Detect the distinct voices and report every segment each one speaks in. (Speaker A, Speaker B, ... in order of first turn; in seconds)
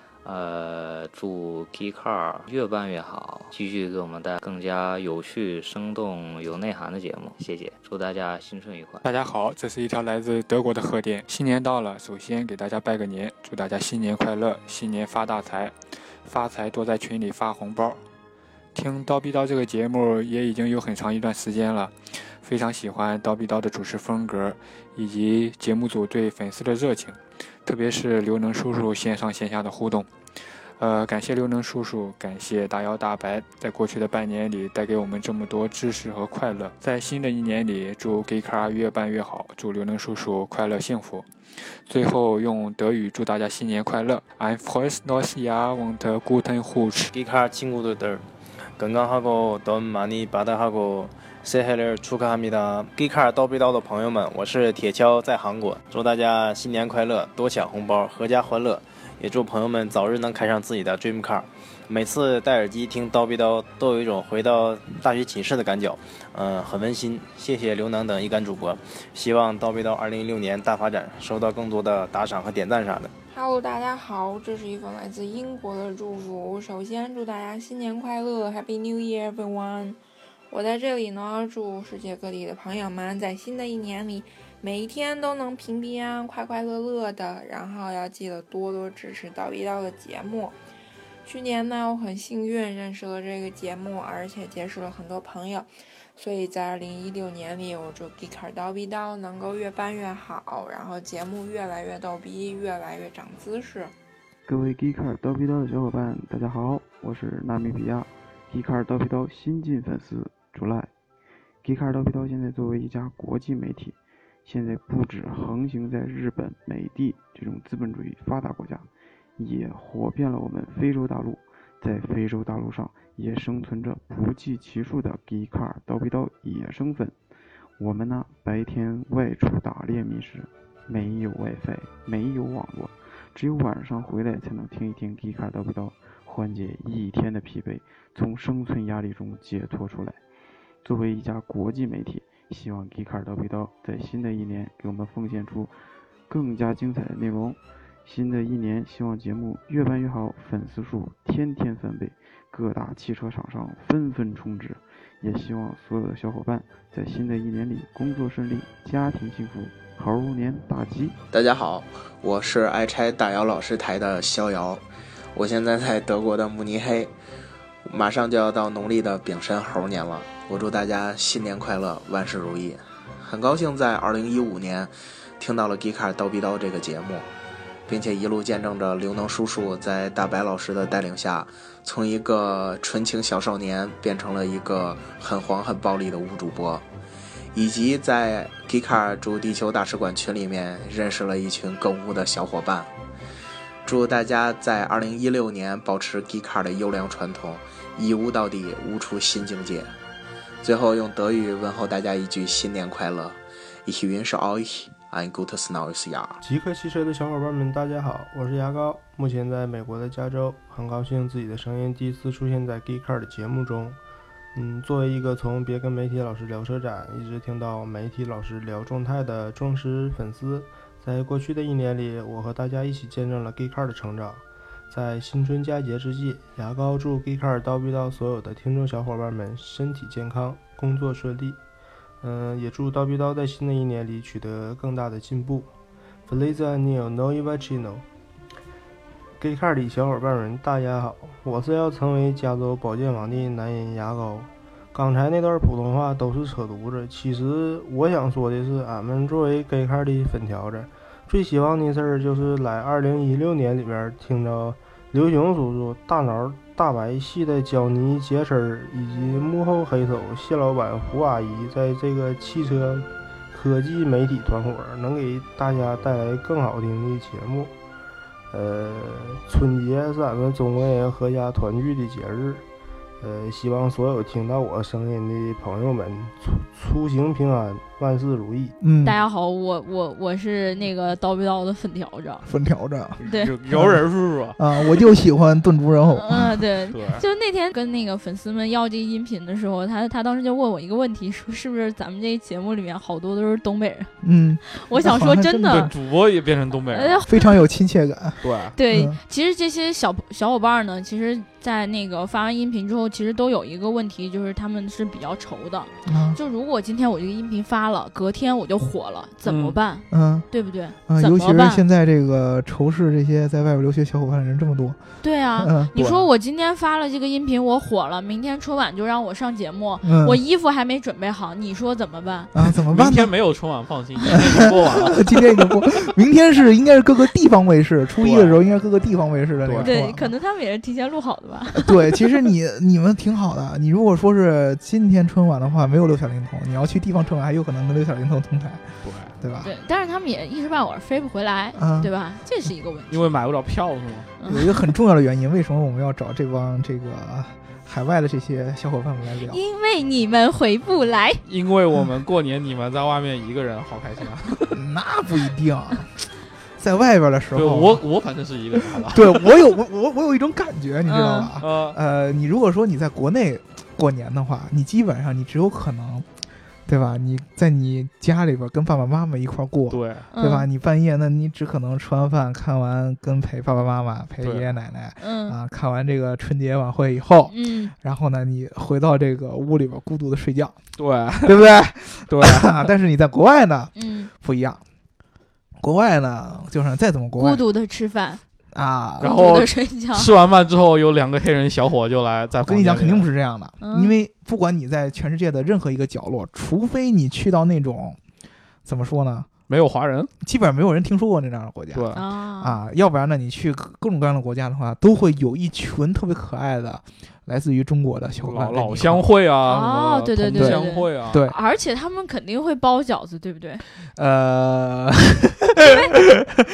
Speaker A: 0.2-9.0
Speaker B: 9.0-18.0, 18.7-30.1, 30.8-41.3, 41.9-47.1
Speaker C: 47.1-48.3, 48.8-73.1
Speaker D: 73.3-80.0, 80.5-90.6, 91.2-103.9
Speaker E: 104.5-111.0, 111.6-127.2, 127.8-161.2
Speaker F: 161.3-164.8, 165.3-167.1, 167.8-177.3, 177.9-186.8, 187.5-192.9, 193.8-199.9, 200.6-206.4
Speaker G: 206.4-214.0, 214.5-231.6, 232.2-235.7, 236.3-238.1, 239.4-267.7, 268.5-272.7, 273.2-278.8
Speaker H: 278.8-279.2, 282.4-286.6, 294.2-295.9, 297.3-299.2, 306.1-306.4, 310.1-310.5, 311.1-315.0, 315.6-315.9, 320.0-320.4, 322.5-323.3, 325.0-330.3, 331.8-338.8, 339.4-339.7, 341.8-342.1, 344.5-349.6, 354.7-358.0, 359.1-366.3, 366.9-380.8, 381.4-384.8, 385.8-387.6, 388.7-389.4, 392.6-398.2, 398.9-399.5, 400.4-409.3, 410.5-411.6, 414.2-416.4
Speaker I: 279.0-282.5, 283.2-283.5, 286.1-294.1, 294.8-295.9, 296.9-297.5, 298.8-311.8, 315.2-322.5, 329.8-332.0, 339.6-343.4, 344.4-344.6, 349.5-351.4, 361.1-361.5, 370.3-370.7, 375.2-375.6, 377.5-377.9, 383.9-384.3, 387.4-388.4, 389.2-390.3, 393.8-394.1, 402.1-402.8, 409.7-413.8, 415.8-416.2
Speaker J: 283.2-284.6, 286.9-287.2, 295.7-297.2, 298.4-298.8, 309.5-309.8, 316.0-316.3, 322.9-325.4, 328.2-328.6, 329.6-329.9, 339.0-339.3, 343.1-344.3, 351.5-354.8, 357.5-359.5, 361.6-362.0, 369.9-370.2, 374.4-374.7, 381.0-381.6, 382.3-382.7, 389.2-393.3, 399.7-400.3, 401.9-402.2, 408.4-411.4